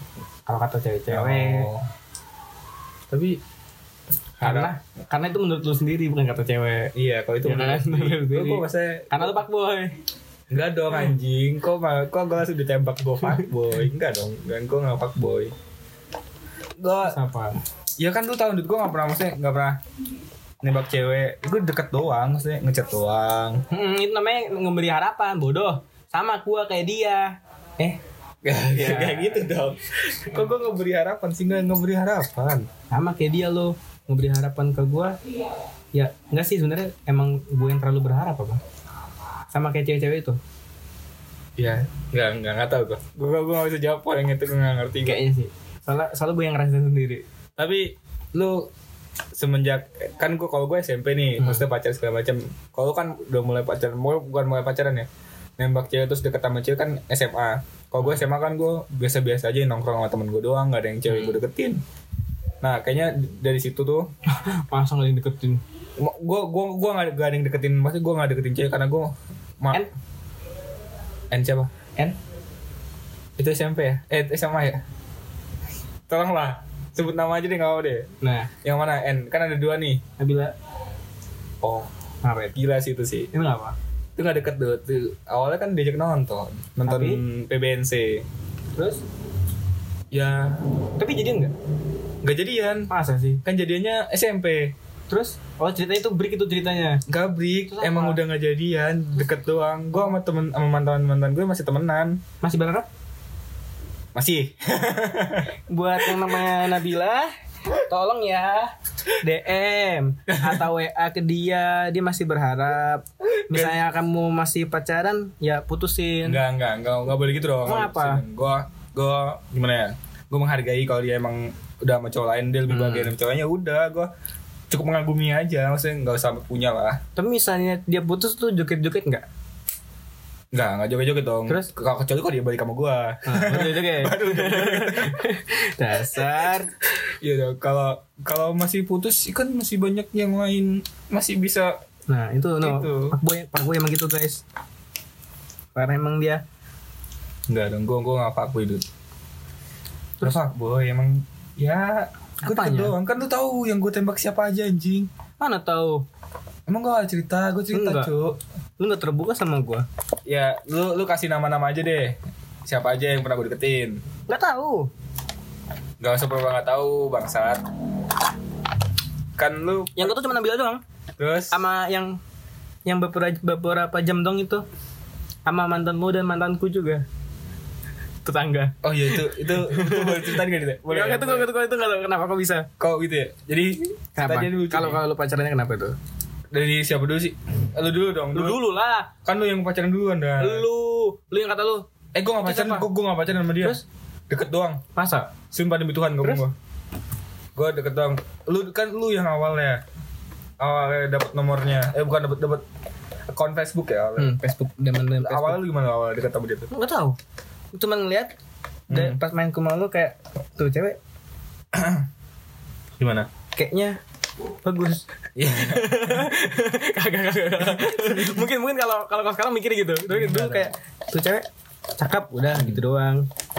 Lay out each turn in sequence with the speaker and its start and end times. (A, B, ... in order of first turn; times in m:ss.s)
0:00.4-0:01.7 A
0:01.1-0:01.8 B
0:03.1-0:03.4 B
0:04.4-0:06.9 A
0:04.4-0:04.7 B
0:06.9-0:09.4 B
0:07.4-0:10.0 A
0:10.5-0:15.5 B
0:16.8-0:17.2 B
0:17.0-0:17.5 A
0:18.0-0:19.8 B
0:20.6-0:23.6 B
0:23.7-0:28.0 A
0:28.4-0:32.7 B
0:28.7-0:29.5 A
0:32.9-0:35.2 A
0:35.9-0:38.6 A
0:39.5-0:40.4 A
0:41.6-0:45.2 B
0:45.0-0:47.2 A
0:47.6-0:48.7 B
0:49.4-0:55.1 B
0:55.6-1:01.8 B
1:01.1-1:01.4 A
1:02.6-1:04.1 B
1:04.3-1:05.6 A
1:06.0-1:09.8 B
1:11.3-1:11.7 B
1:13.4-1:14.8 B
1:16.1-1:18.1 B
1:18.2-1:18.5 A
1:18.6-1:20.0 B
1:20.2-1:20.5 A
1:21.6-1:21.9 B
1:22.2-1:22.6 A
1:22.5-1:23.3 B
1:23.3-1:23.8 A
1:24.2-1:28.2 B
1:26.8-1:27.2 A
1:28.7-1:29.0 A
1:30.1-1:30.6 B
1:31.0-1:31.5 A
1:32.2-1:32.9 B
1:32.9-1:33.4 A
1:33.4-1:34.7 B
1:35.1-1:37.0 A
1:37.1-1:42.2 B
1:37.7-1:38.2 A
1:42.4-1:42.9 A
1:44.1-1:46.5 B
1:45.7-1:56.4 A
1:50.3-1:50.6 B
1:53.3-1:53.8 B
1:56.2-2:04.1 B
1:57.6-1:58.2 A
2:02.7-2:03.1 A
2:04.7-2:07.0 B
2:07.2-2:09.2 A
2:10.5-2:15.2 B
2:13.3-2:16.7 A
2:16.1-2:16.6 B
2:17.2-2:21.7 B
2:22.1-2:24.4 A
2:22.6-2:23.2 B
2:25.7-2:26.4 A
2:27.5-2:28.8 B
2:30.2-2:35.1 B
2:32.4-2:32.9 A
2:35.4-2:36.0 A
2:36.7-2:38.4 B
2:37.7-2:38.1 A
2:38.8-2:39.8 A
2:40.3-2:44.0 B
2:44.3-2:44.9 A
2:46.0-2:47.6 B
2:49.4-2:50.2 B
2:50.0-2:50.8 A
2:51.2-2:51.6 B
2:51.5-2:52.2 A
2:52.8-2:54.6 A
2:55.4-2:57.0 A
2:58.2-3:02.7 A
2:58.8-3:01.5 B
3:02.8-3:05.0 B
3:04.2-3:06.0 A
3:06.5-3:08.6 B
3:08.3-3:09.1 A
3:09.2-3:10.6 B
3:10.4-3:11.9 A
3:12.1-3:14.8 B
3:12.4-3:12.9 A
3:14.9-3:15.3 A
3:15.5-3:16.5 B
3:17.6-3:19.8 B
3:20.6-3:22.6 B
3:23.3-3:24.4 B
3:24.2-3:25.6 A
3:25.2-3:26.7 B
3:26.7-3:27.2 A
3:27.7-3:28.3 A
3:28.9-3:29.2 B
3:28.9-3:31.0 A
3:31.7-3:32.0 B
3:33.0-3:33.3 B
3:33.5-3:34.0 A
3:34.6-3:43.3 A
3:35.4-3:36.3 B
3:37.6-3:38.4 B
3:40.1-3:40.7 B
3:42.5-3:42.8 B